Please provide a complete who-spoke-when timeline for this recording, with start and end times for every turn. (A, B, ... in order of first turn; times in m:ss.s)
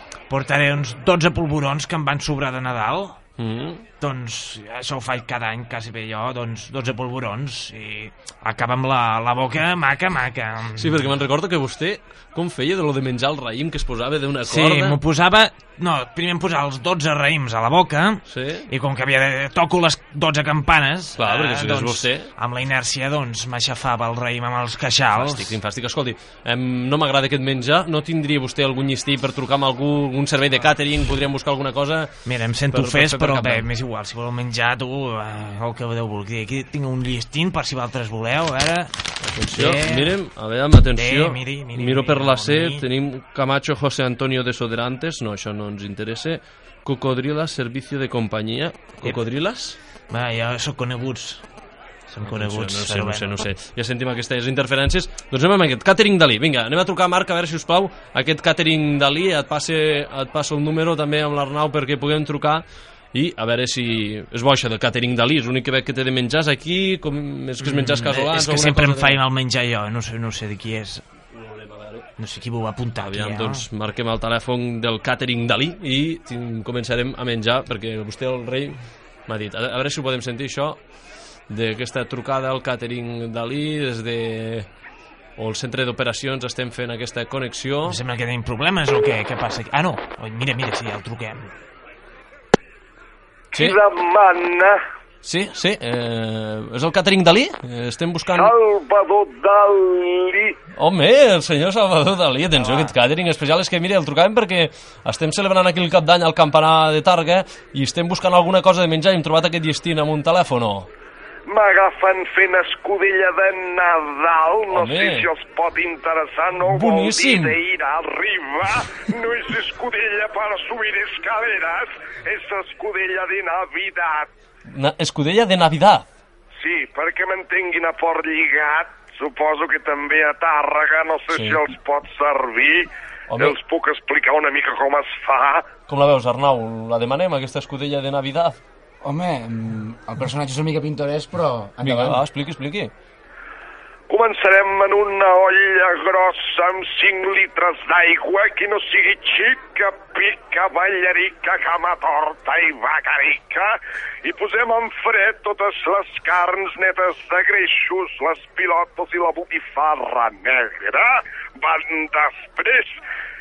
0:00.3-0:03.2 A
0:03.4-0:03.8 B
0:04.0-0:11.0 A
0:10.8-0:15.0 B
0:14.5-0:25.6 A
0:18.3-0:18.7 B
0:21.2-0:22.3 B
0:25.1-0:33.6 B
0:32.2-0:38.9 A
0:39.2-0:49.8 B
0:39.5-0:40.2 A
0:40.9-0:42.8 A
0:50.1-0:51.5 A
0:52.1-0:53.5 A
0:52.2-1:09.2 B
1:07.6-1:11.0 A
1:11.3-1:12.1 B
1:12.2-1:13.6 A
1:13.0-1:20.9 B
1:21.5-1:24.7 B
1:25.4-1:28.0 B
1:27.8-1:31.5 A
1:33.5-1:34.8 C
1:35.2-1:38.5 B
1:38.3-1:40.5 C
1:40.8-1:50.9 B
1:51.5-2:04.3 C
1:54.7-1:55.2 B
1:56.6-1:57.6 B
2:04.7-2:06.0 B
2:06.6-2:15.7 C
2:11.3-2:11.6 B
2:13.3-2:13.6 B
2:15.9-2:18.6 B
2:19.0-2:22.2 D
2:21.8-2:22.9 B
2:24.1-2:43.0 C